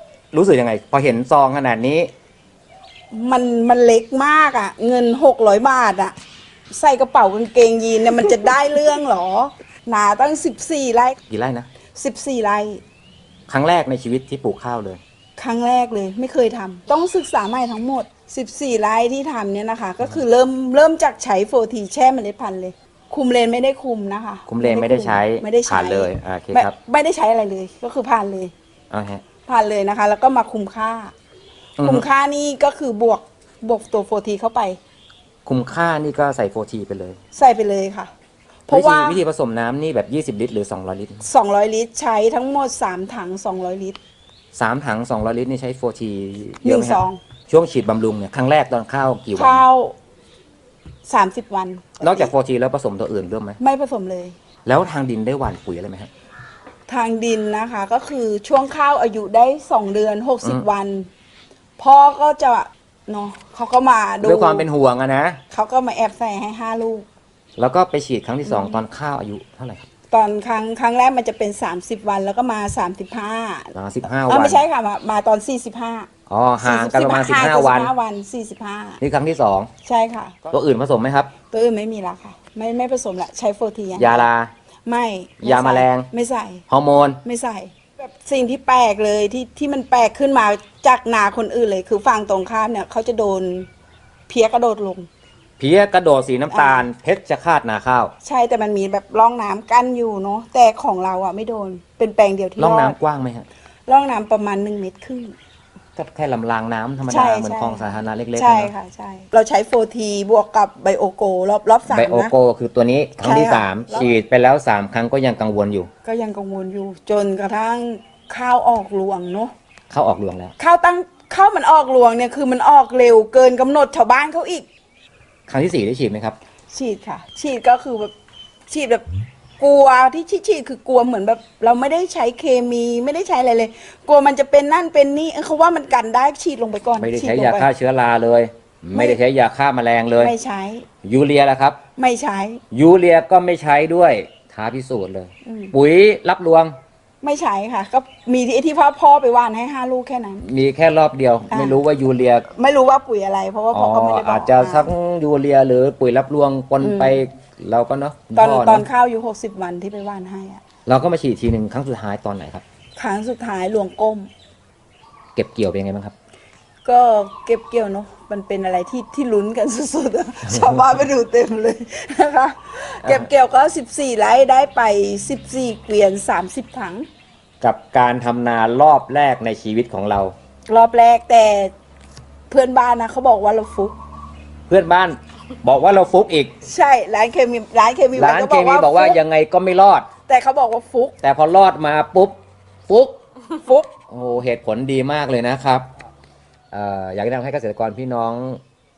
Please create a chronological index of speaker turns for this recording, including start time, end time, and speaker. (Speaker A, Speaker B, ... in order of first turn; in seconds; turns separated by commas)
Speaker A: 0.3-2.1, Speaker B: 3.1-6.2, Speaker B: 6.7-11.2, Speaker A: 11.3-11.7, Speaker B: 11.9-12.8, Speaker A: 13.5-15.0, Speaker B: 15.4-28.5, Speaker A: 24.5-26.8, Speaker A: 28.9-29.2, Speaker B: 29.5-31.1, Speaker A: 31.8-32.0, Speaker B: 31.8-34.8, Speaker A: 35.5-37.2, Speaker B: 37.3-38.1, Speaker B: 38.7-39.2, Speaker A: 38.7-41.2, Speaker B: 41.2-44.0, Speaker A: 44.5-49.6, Speaker B: 46.6-47.2, Speaker B: 49.4-50.0, Speaker B: 51.1-52.3, Speaker A: 52.0-53.6, Speaker B: 53.6-54.4, Speaker A: 54.7-56.1, Speaker B: 56.9-61.1, Speaker B: 61.8-64.7, Speaker A: 64.2-65.4, Speaker B: 65.5-67.1, Speaker A: 67.6-69.9, Speaker B: 68.5-68.8, Speaker B: 70.1-73.7, Speaker A: 73.7-74.6, Speaker B: 74.3-79.0, Speaker A: 76.3-77.9, Speaker A: 79.0-79.7, Speaker B: 79.8-80.4, Speaker A: 80.5-81.3, Speaker B: 81.5-84.3, Speaker A: 84.0-84.5, Speaker B: 84.9-86.6, Speaker A: 85.4-86.1, Speaker A: 86.7-87.2, Speaker B: 87.2-93.7, Speaker B: 94.3-95.1, Speaker A: 95.6-98.1, Speaker B: 96.5-96.9, Speaker B: 98.2-103.0, Speaker A: 102.6-103.5, Speaker B: 103.9-105.3, Speaker A: 106.0-108.7, Speaker B: 107.0-107.9, Speaker B: 108.4-112.3, Speaker A: 111.9-115.9, Speaker B: 113.2-114.1, Speaker B: 116.0-119.5, Speaker A: 119.9-120.5, Speaker B: 120.6-124.7, Speaker A: 125.5-126.4, Speaker B: 126.7-128.1, Speaker B: 128.7-129.1, Speaker B: 129.6-137.7, Speaker A: 137.0-140.3, Speaker B: 138.9-139.2, Speaker B: 140.2-140.9, Speaker A: 141.0-141.8, Speaker B: 142.0-142.6, Speaker A: 142.7-146.8, Speaker B: 145.4-145.7, Speaker B: 147.2-150.5, Speaker A: 150.4-152.5, Speaker B: 151.5-151.8, Speaker B: 152.5-154.9, Speaker A: 153.7-158.8, Speaker B: 156.8-157.2, Speaker B: 158.4-160.6, Speaker A: 160.9-162.6, Speaker B: 163.0-164.3, Speaker A: 165.4-166.1, Speaker B: 166.8-177.1, Speaker A: 177.6-180.3, Speaker B: 180.7-181.7, Speaker B: 182.5-184.0, Speaker A: 184.7-186.6, Speaker B: 186.7-189.2, Speaker A: 188.2-190.1, Speaker B: 190.3-191.2, Speaker A: 191.2-192.4, Speaker A: 192.9-193.2, Speaker B: 193.6-193.9, Speaker A: 194.1-195.9, Speaker A: 196.7-198.6